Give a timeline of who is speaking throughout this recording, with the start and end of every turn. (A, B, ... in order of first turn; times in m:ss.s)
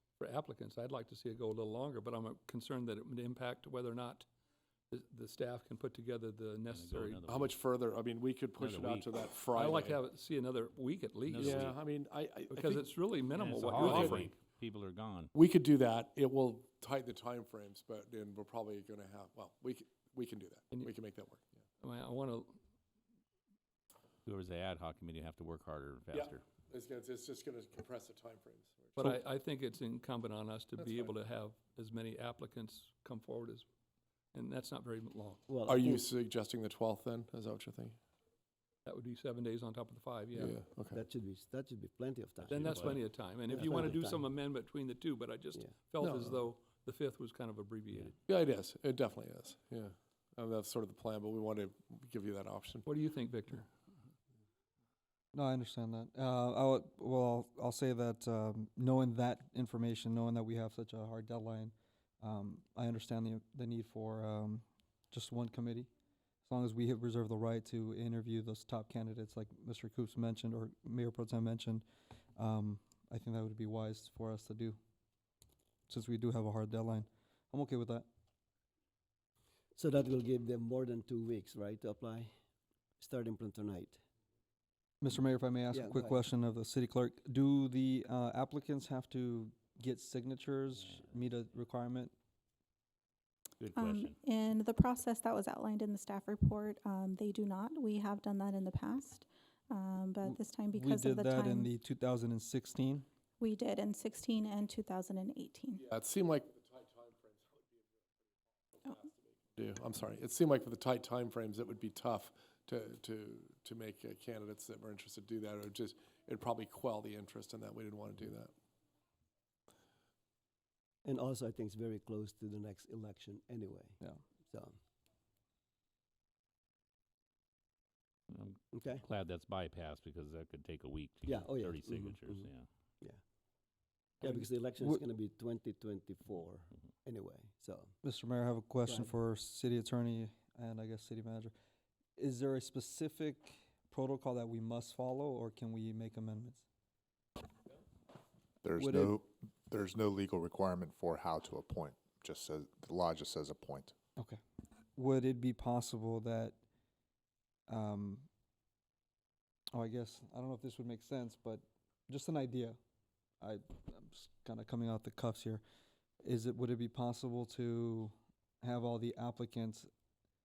0:00.2-0:04.2 A
0:04.9-0:07.2 A
0:06.7-0:07.6 B
0:07.3-0:10.0 C
0:08.6-0:09.2 B
0:09.6-0:11.7 A
0:11.3-0:11.8 B
0:11.3-0:13.0 C
0:12.5-0:14.3 A
0:13.3-0:15.3 B
0:13.7-0:14.3 C
0:15.3-0:21.5 C
0:21.8-0:22.6 A
0:24.2-0:26.4 B
0:26.1-0:29.1 C
0:29.0-0:33.7 A
0:30.8-0:31.1 C
0:34.3-0:35.5 A
0:35.5-0:36.0 D
0:35.7-0:38.0 C
0:38.8-0:40.5 A
0:40.3-0:41.0 C
0:40.9-0:44.3 D
0:42.4-0:43.1 B
0:42.5-0:48.1 A
0:46.0-0:46.4 C
0:48.3-0:52.9 C
0:52.8-0:53.7 A
0:55.3-1:05.9 E
1:06.4-1:11.8 E
1:12.4-1:14.8 E
1:15.9-1:18.1 E
1:19.8-1:22.3 D
1:23.0-1:24.0 D
1:25.0-1:32.1 E
1:25.7-1:26.2 D
1:33.6-1:34.1 B
1:33.7-1:41.7 F
1:40.2-1:43.0 E
1:43.4-1:45.8 F
1:45.8-1:47.6 C
1:48.8-1:58.5 C
2:01.0-2:04.0 D
2:04.5-2:04.7 D
2:08.3-2:12.6 B
2:08.7-2:09.0 D
2:11.2-2:12.4 D
2:14.2-2:17.9 D
2:14.2-2:15.0 E
2:18.0-2:21.5 E
2:18.9-2:19.1 D
2:22.2-2:26.6 E
2:28.6-2:33.9 G
2:28.8-2:29.2 E
2:35.0-2:36.6 E
2:37.7-2:38.3 E
2:39.7-2:42.8 E
2:43.4-2:45.6 E
2:46.2-2:49.9 E